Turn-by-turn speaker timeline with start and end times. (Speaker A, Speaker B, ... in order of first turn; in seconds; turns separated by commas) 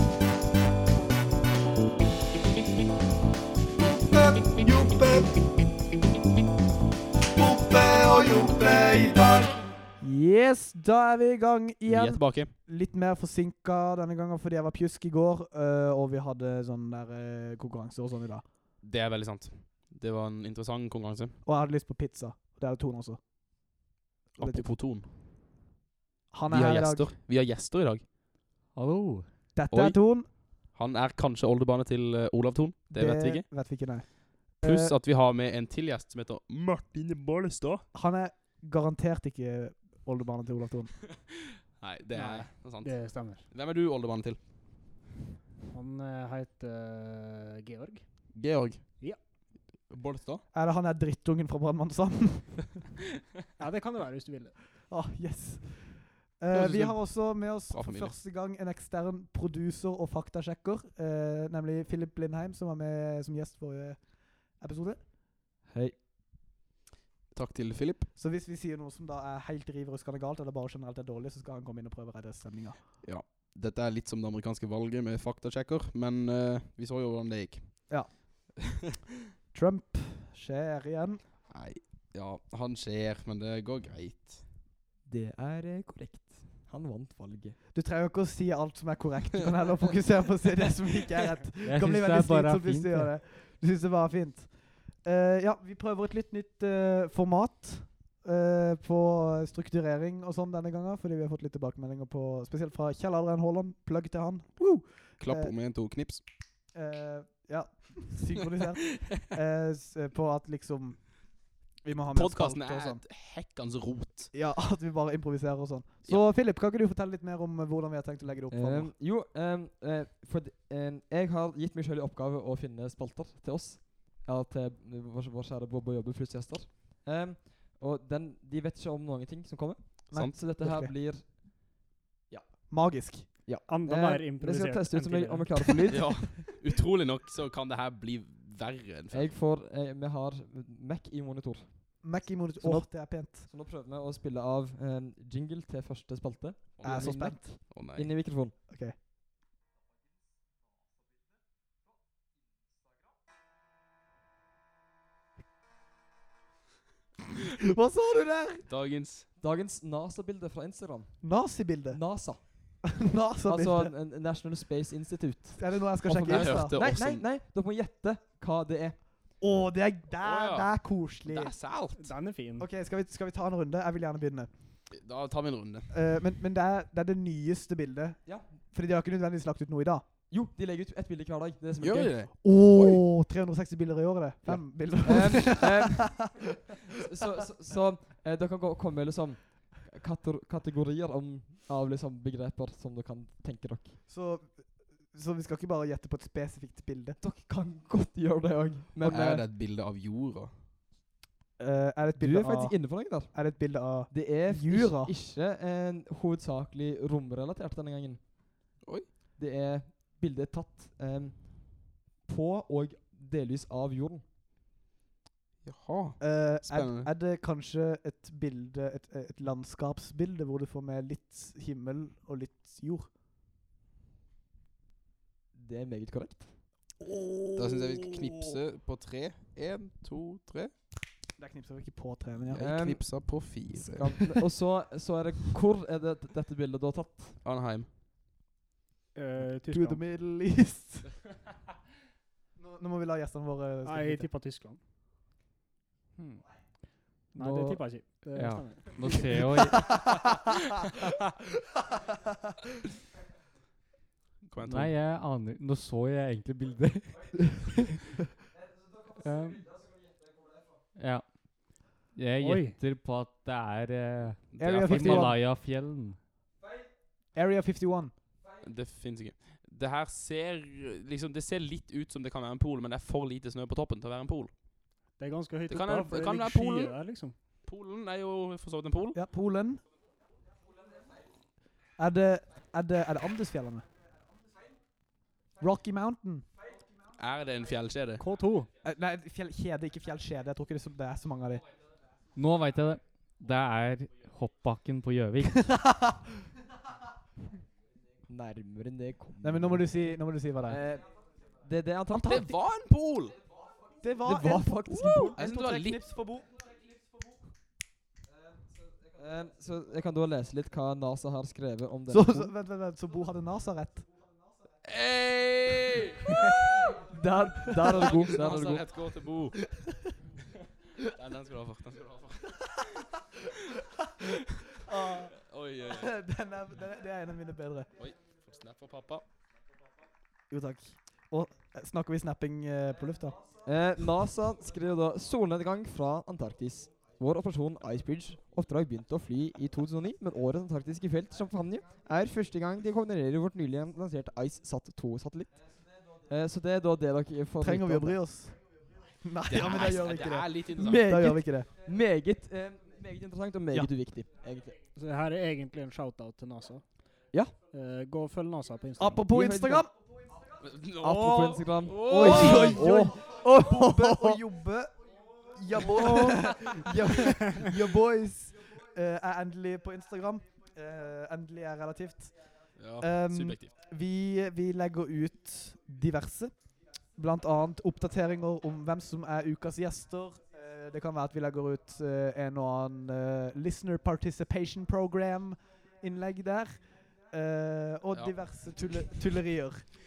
Speaker A: 3.9-5.3, Speaker A: 7.4-18.4, Speaker B: 11.9-12.5, Speaker B: 18.8-21.4, Speaker A: 21.4-23.8, Speaker A: 24.4-24.7, Speaker B: 24.4-25.1, Speaker A: 26.3-27.1, Speaker B: 26.5-28.1, Speaker C: 28.7-29.3, Speaker A: 29.5-30.3, Speaker B: 29.7-33.5, Speaker A: 32.9-34.9, Speaker B: 34.6-37.9, Speaker A: 37.9-41.0, Speaker B: 41.8-44.4, Speaker D: 42.1-43.5, Speaker D: 45.7-48.2, Speaker B: 48.3-50.4, Speaker A: 50.5-52.8, Speaker D: 53.6-54.5, Speaker A: 54.9-65.0, Speaker B: 56.5-58.2, Speaker E: 65.7-66.0, Speaker B: 67.3-68.1, Speaker A: 68.2-72.8, Speaker B: 73.0-78.1, Speaker A: 79.5-81.2, Speaker B: 81.5-84.4, Speaker E: 85.0-87.6, Speaker A: 87.7-105.5, Speaker C: 91.6-93.1, Speaker B: 104.8-106.2, Speaker A: 106.7-111.2, Speaker A: 111.8-113.0, Speaker B: 112.1-114.3, Speaker A: 114.3-118.9, Speaker E: 118.5-131.7, Speaker A: 130.1-130.9, Speaker E: 132.3-132.6, Speaker A: 132.6-133.7, Speaker E: 133.4-136.5, Speaker D: 133.6-135.9, Speaker B: 135.8-139.3, Speaker E: 139.1-148.5, Speaker A: 142.0-143.5, Speaker B: 146.8-148.1, Speaker A: 146.8-147.6, Speaker A: 148.7-148.9, Speaker A: 157.5-158.7, Speaker B: 158.7-159.3, Speaker E: 159.4-161.3, Speaker A: 161.2-162.0, Speaker E: 161.9-169.0, Speaker A: 162.8-163.9, Speaker A: 165.6-166.8, Speaker B: 166.2-167.2, Speaker A: 169.4-171.5, Speaker B: 170.2-170.7, Speaker B: 171.2-172.1, Speaker D: 171.9-172.7, Speaker A: 172.6-174.5, Speaker B: 174.9-175.9, Speaker A: 175.9-180.1, Speaker E: 180.3-182.2, Speaker B: 181.8-183.0, Speaker A: 182.4-186.4, Speaker E: 184.4-194.0, Speaker A: 194.1-197.2, Speaker E: 197.2-199.3, Speaker A: 199.0-199.4, Speaker B: 199.1-200.6, Speaker A: 201.6-205.1, Speaker E: 202.1-208.2, Speaker B: 208.8-209.1, Speaker E: 209.4-214.2, Speaker B: 215.6-217.1, Speaker A: 216.2-223.1, Speaker E: 225.5-226.6, Speaker A: 227.0-228.6, Speaker B: 227.6-230.7, Speaker A: 231.4-232.6, Speaker B: 232.5-234.4, Speaker E: 232.5-237.4, Speaker B: 237.4-237.9, Speaker D: 239.1-240.0, Speaker A: 239.6-241.2, Speaker A: 242.6-244.3, Speaker D: 243.8-244.8, Speaker C: 246.2-249.9, Speaker D: 247.3-249.2, Speaker A: 249.8-250.3, Speaker B: 254.4-254.9, Speaker C: 254.6-257.9, Speaker C: 259.2-259.6, Speaker C: 260.9-266.2, Speaker D: 262.4-262.8, Speaker B: 264.6-265.3, Speaker A: 264.6-265.4, Speaker A: 267.3-268.1, Speaker B: 268.6-274.5, Speaker D: 275.2-277.3, Speaker B: 275.7-276.9, Speaker B: 277.6-279.2, Speaker A: 279.1-279.8, Speaker A: 282.0-283.9, Speaker A: 285.6-286.4, Speaker B: 287.2-288.2, Speaker D: 288.2-288.7, Speaker A: 288.8-291.6, Speaker C: 292.4-295.7, Speaker A: 295.6-296.2, Speaker E: 298.3-300.1, Speaker A: 299.4-300.8, Speaker E: 300.6-302.5, Speaker A: 302.1-302.4, Speaker B: 302.1-303.4, Speaker A: 304.0-306.5, Speaker E: 304.2-305.4, Speaker B: 305.1-306.0, Speaker E: 309.1-312.5, Speaker A: 312.1-314.1, Speaker B: 314.8-316.9, Speaker A: 316.3-318.3, Speaker E: 317.5-318.9, Speaker B: 317.8-319.6, Speaker B: 321.0-323.0, Speaker A: 324.7-327.9, Speaker B: 325.4-326.1, Speaker B: 328.0-329.2, Speaker A: 330.5-333.4, Speaker E: 333.6-345.5, Speaker E: 346.1-348.2, Speaker A: 347.6-348.6, Speaker A: 349.2-351.7, Speaker B: 349.5-351.1, Speaker E: 350.7-354.8, Speaker D: 354.9-357.0, Speaker D: 357.7-359.2, Speaker A: 359.0-359.9, Speaker E: 359.3-359.8, Speaker B: 360.6-362.8, Speaker E: 361.0-364.4, Speaker A: 362.1-364.9, Speaker E: 365.6-367.3, Speaker A: 365.7-372.3, Speaker B: 372.8-373.7, Speaker A: 373.0-376.5, Speaker A: 377.1-389.9